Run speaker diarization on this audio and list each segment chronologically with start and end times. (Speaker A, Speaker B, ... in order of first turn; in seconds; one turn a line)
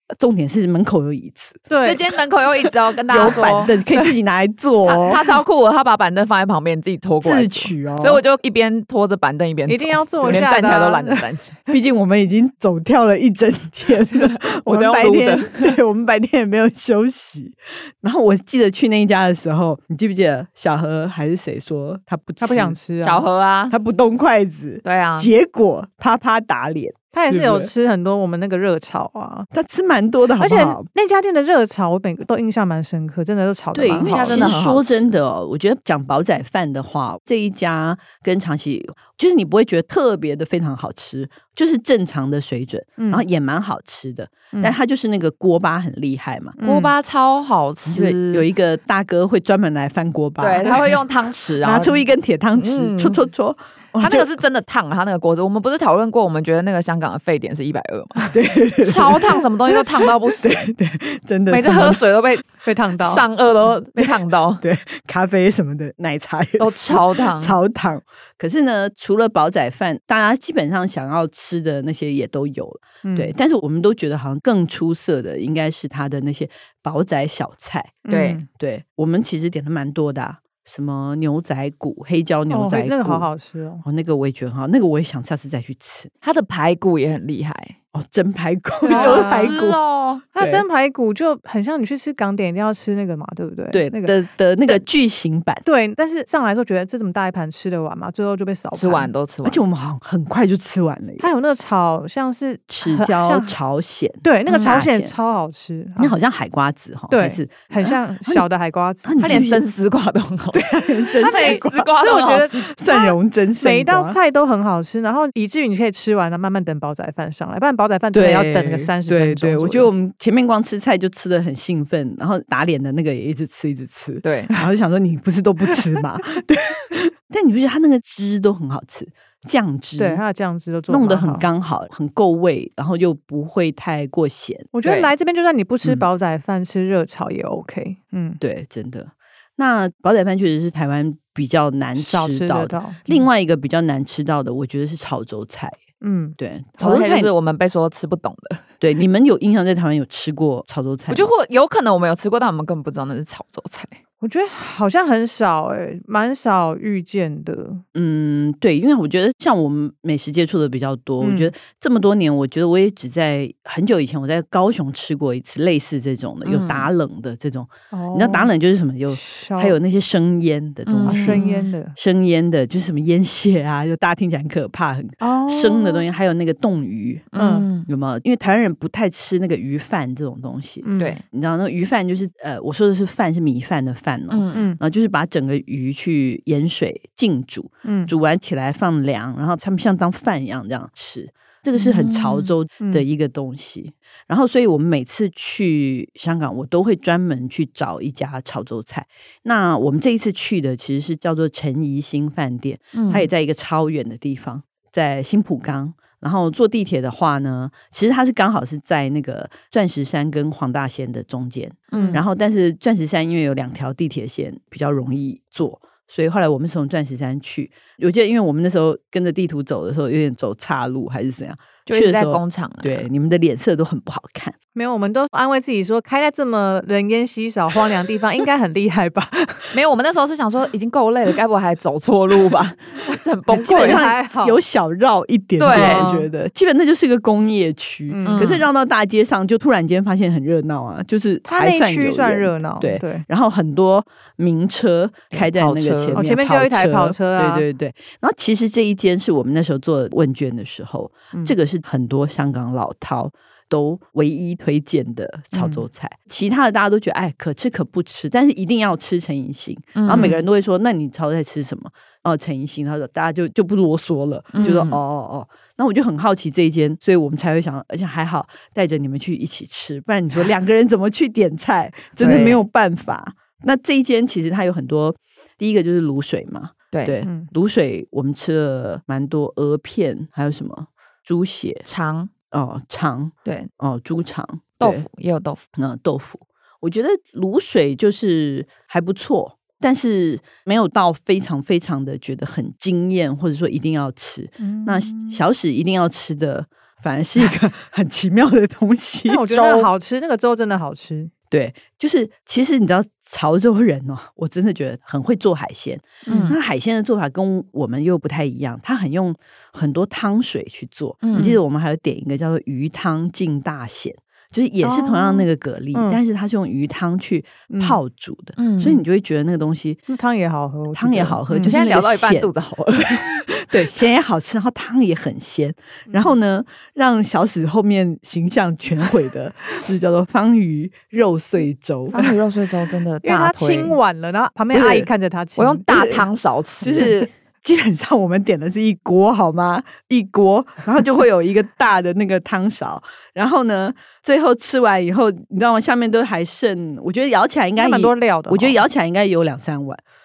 Speaker A: 0.1-1.7
Speaker B: 1.7-2.0
Speaker C: 1.8-3.8
Speaker A: 3.1-5.2
Speaker B: 3.2-3.5
Speaker C: 4.8-11.6
Speaker A: 7.2-8.2
Speaker B: 9.7-11.3
Speaker A: 10.2-10.5
Speaker A: 11.7-22.8
Speaker C: 14.1-15.8
Speaker B: 22.4-23.2
Speaker C: 23.0-23.7
Speaker A: 23.7-27.7
Speaker C: 24.8-25.3
Speaker B: 27.1-29.5
Speaker A: 29.5-30.9
Speaker B: 30.4-34.5
Speaker A: 33.7-46.5
Speaker C: 34.0-35.1
Speaker B: 43.0-43.2
Speaker B: 46.6-46.9
Speaker C: 46.6-48.5
Speaker A: 47.9-51.0
Speaker C: 50.4-52.0
Speaker A: 51.6-54.3
Speaker C: 52.6-53.2
Speaker C: 54.0-60.7
Speaker A: 58.3-59.8
Speaker A: 60.4-62.0
Speaker C: 61.5-64.6
Speaker B: 62.6-63.2
Speaker A: 64.0-78.0
Speaker C: 66.6-67.6
Speaker B: 73.0-73.3
Speaker B: 78.0-78.5
Speaker C: 78.1-78.4
Speaker A: 78.5-83.3
Speaker B: 82.5-83.8
Speaker A: 83.8-86.1
Speaker C: 86.2-87.8
Speaker A: 87.9-89.8
Speaker B: 88.8-89.5
Speaker C: 88.9-90.2
Speaker B: 90.3-94.2
Speaker A: 90.3-90.6
Speaker A: 93.7-95.6
Speaker B: 95.6-99.1
Speaker C: 98.7-99.6
Speaker A: 99.4-101.3
Speaker B: 101.2-103.5
Speaker A: 102.7-105.1
Speaker B: 104.2-106.2
Speaker C: 104.5-104.8
Speaker A: 106.0-108.5
Speaker B: 107.1-109.5
Speaker A: 109.0-109.6
Speaker C: 109.2-112.6
Speaker A: 110.5-114.2
Speaker B: 111.2-119.9
Speaker A: 118.1-130.2
Speaker C: 124.2-124.5
Speaker B: 130.0-131.5
Speaker A: 130.9-134.7
Speaker B: 134.7-138.4
Speaker C: 134.8-135.1
Speaker A: 138.4-145.8
Speaker B: 141.9-143.2
Speaker B: 146.0-146.4
Speaker A: 146.4-147.3
Speaker C: 146.8-148.7
Speaker A: 148.8-151.3
Speaker C: 151.1-154.0
Speaker B: 154.2-157.8
Speaker A: 157.9-177.2
Speaker B: 161.2-161.5
Speaker C: 166.4-166.9
Speaker B: 167.9-168.5
Speaker B: 169.1-169.8
Speaker C: 170.9-171.7
Speaker B: 171.1-171.9
Speaker B: 175.2-176.0
Speaker C: 177.3-177.9
Speaker B: 177.3-177.7
Speaker A: 177.8-224.5
Speaker B: 180.8-181.2
Speaker C: 184.3-184.7
Speaker B: 184.5-184.8
Speaker B: 187.8-188.1
Speaker C: 191.7-192.5
Speaker C: 202.9-203.3
Speaker C: 211.9-212.2
Speaker B: 211.9-212.2
Speaker C: 221.9-223.1
Speaker B: 224.7-229.8
Speaker C: 229.7-234.0
Speaker B: 233.5-234.6
Speaker A: 233.6-281.8
Speaker C: 235.6-236.1
Speaker B: 235.7-236.3
Speaker B: 238.1-238.6
Speaker C: 238.2-238.7
Speaker B: 241.4-243.2
Speaker C: 245.3-246.2
Speaker B: 246.1-247.6
Speaker B: 255.5-255.8
Speaker C: 259.9-260.4
Speaker C: 264.5-265.0
Speaker C: 272.2-272.6
Speaker B: 277.2-277.5
Speaker C: 281.8-282.3
Speaker A: 282.5-285.1
Speaker C: 283.4-283.7
Speaker C: 284.8-285.6
Speaker A: 285.7-299.5
Speaker B: 294.6-295.4
Speaker B: 299.3-301.3
Speaker C: 299.5-299.9
Speaker A: 301.5-320.0
Speaker B: 306.2-306.6
Speaker C: 306.3-306.6
Speaker C: 311.2-311.6
Speaker B: 314.8-316.2
Speaker B: 317.7-318.0
Speaker C: 318.6-319.0
Speaker B: 320.1-321.8
Speaker A: 320.9-322.5
Speaker C: 321.6-323.4
Speaker A: 323.2-332.3
Speaker B: 326.1-326.4
Speaker C: 332.1-334.0
Speaker B: 333.2-336.1
Speaker A: 334.7-335.1
Speaker C: 335.6-337.1
Speaker A: 336.8-350.0
Speaker B: 347.8-348.8